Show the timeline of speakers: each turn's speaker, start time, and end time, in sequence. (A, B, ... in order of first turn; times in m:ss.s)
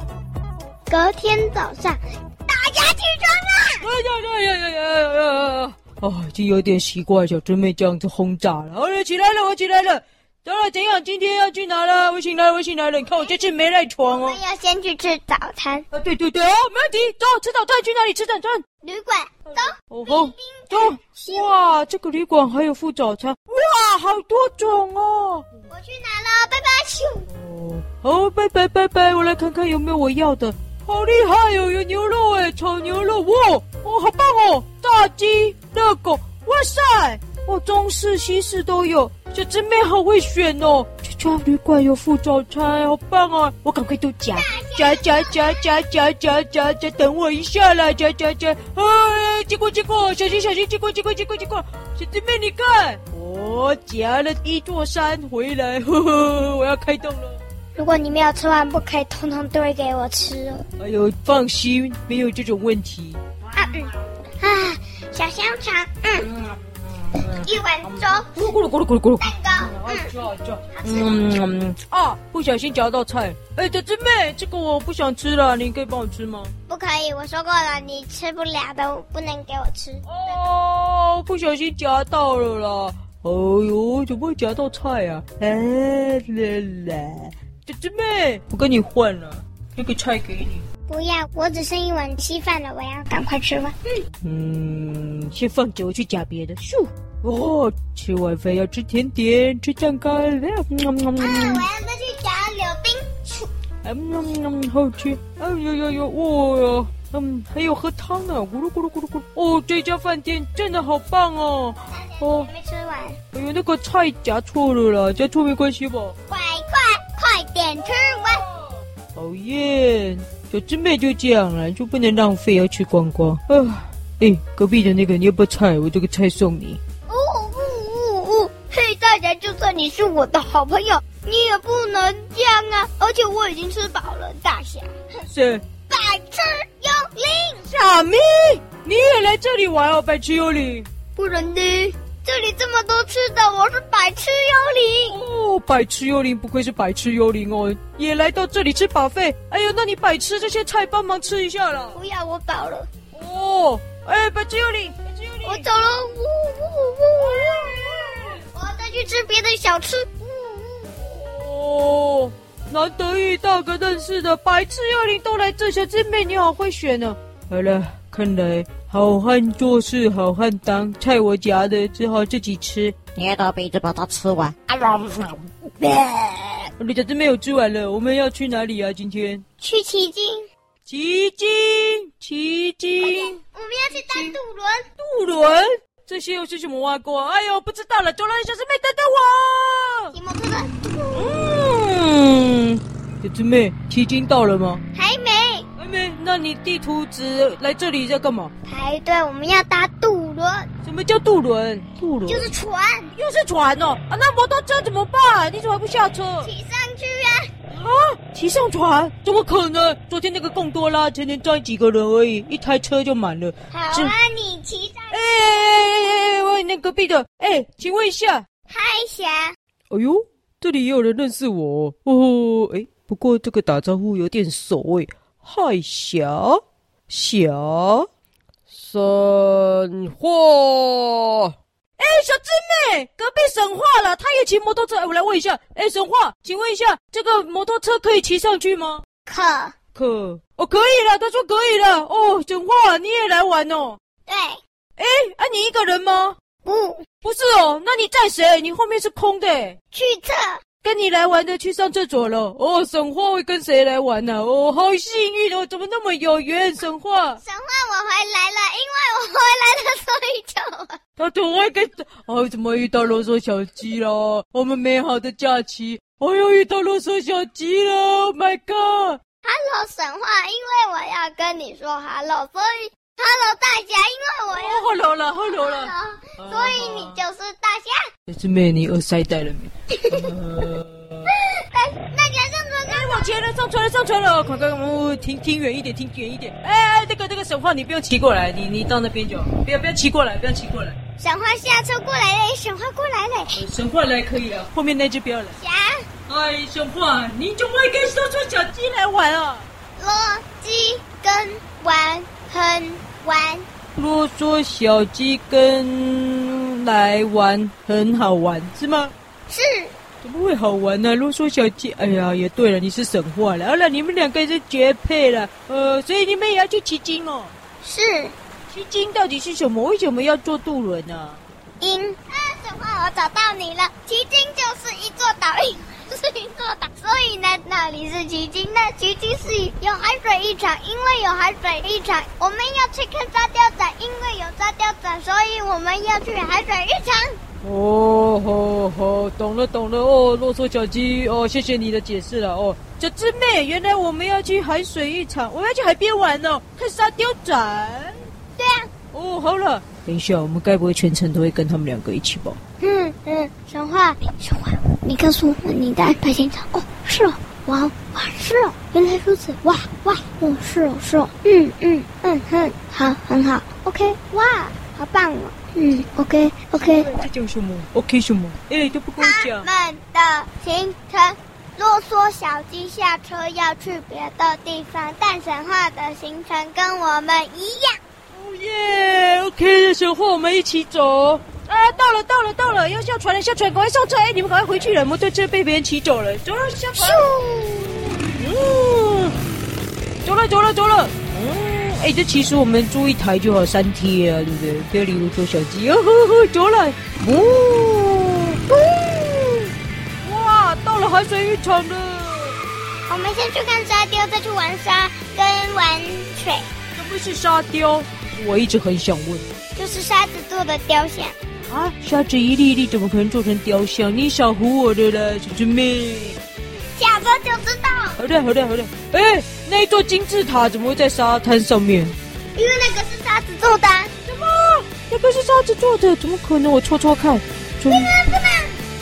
0:00.9-0:03.9 A
0:03.8-0:14.4 B
0:14.1-0:15.9 A
0:15.9-0:18.6 B
0:18.8-0:21.5 A
0:19.5-0:25.5 B
0:25.7-0:27.3 A
0:27.3-0:57.4 B
0:44.3-0:45.7 A
0:57.8-1:00.6 A
1:00.8-1:03.2 B
1:03.5-1:06.3 A
1:06.3-1:16.5 B
1:07.1-1:08.3 A
1:09.2-1:10.1 A
1:10.7-1:11.2 A
1:16.7-1:20.4 A
1:20.1-1:30.7 B
1:30.9-1:34.0 A
1:34.2-1:41.7 B
1:41.2-1:43.5 A
1:43.8-1:52.5 B
1:51.9-1:53.2 A
1:53.3-1:56.2 B
1:56.3-1:58.4 A
1:59.2-2:06.8 B
2:07.1-2:15.2 A
2:15.3-2:15.7 B
2:15.8-2:17.7 A
2:17.7-2:20.9 B
2:21.2-2:25.2 A
2:25.1-2:32.0 B
2:31.9-2:32.9 A
2:33.1-2:35.7 B
2:35.4-2:41.0 A
2:37.2-2:38.4 B
2:41.0-2:53.1 B
2:53.2-2:56.6 C
2:56.8-2:59.4 B
2:59.6-3:00.5 A
3:00.9-3:03.4 B
3:03.0-3:04.9 A
3:03.9-3:04.4 B
3:05.0-3:10.2 B
3:10.1-3:11.5 A
3:11.1-3:14.8 B
3:14.9-3:15.7 A
3:15.8-3:18.5 B
3:18.7-3:20.7 A
3:20.8-3:22.5 B
3:22.3-3:23.1 A
3:23.2-3:26.5 B
3:26.4-3:27.5 A
3:27.7-3:34.2 B
3:33.7-3:36.1 A
3:35.1-3:38.4 B
3:38.7-3:39.5 A
3:39.9-3:48.1 B
3:48.7-3:59.0 B
3:59.3-3:59.8 A
4:00.0-4:04.0 B
4:04.3-4:04.6 A
4:05.0-4:06.4 B
4:06.6-4:07.1 A
4:07.2-4:09.8 B
4:09.9-4:10.6 A
4:10.8-4:17.4 B
4:17.4-4:21.0 A
4:21.2-4:29.2 B
4:29.4-4:38.0 A
4:34.5-4:37.2 B
4:38.3-4:41.3 B
4:39.9-4:40.4 A
4:41.3-4:43.3 A
4:42.9-4:51.0 B
4:51.2-4:53.6 A
4:53.5-4:55.6 B
4:55.6-4:56.1 A
4:56.3-4:59.7 B
5:00.0-5:03.6 A
5:04.0-5:09.1 B
5:09.5-5:10.0 A
5:10.2-5:17.5 B
5:17.8-5:18.4 A
5:18.7-5:21.4 B
5:21.8-5:37.4 A
5:37.6-5:48.2 B
5:48.6-5:48.9 A
5:49.1-5:52.6 B
5:52.8-6:07.2 A
6:06.8-6:09.7 B
6:09.2-6:18.0 A
6:18.3-6:27.4 B
6:27.0-6:28.0 A
6:28.2-6:29.4 B
6:30.2-6:39.7 B
6:40.2-6:42.6 B
6:43.1-6:46.7 A
6:47.0-6:49.4 B
6:49.8-6:51.4 A
6:51.7-6:56.4 B
6:56.9-6:58.2 A
6:58.2-7:02.2 B
7:02.6-7:04.1 A
7:04.3-7:08.4 B
7:07.9-7:08.8 A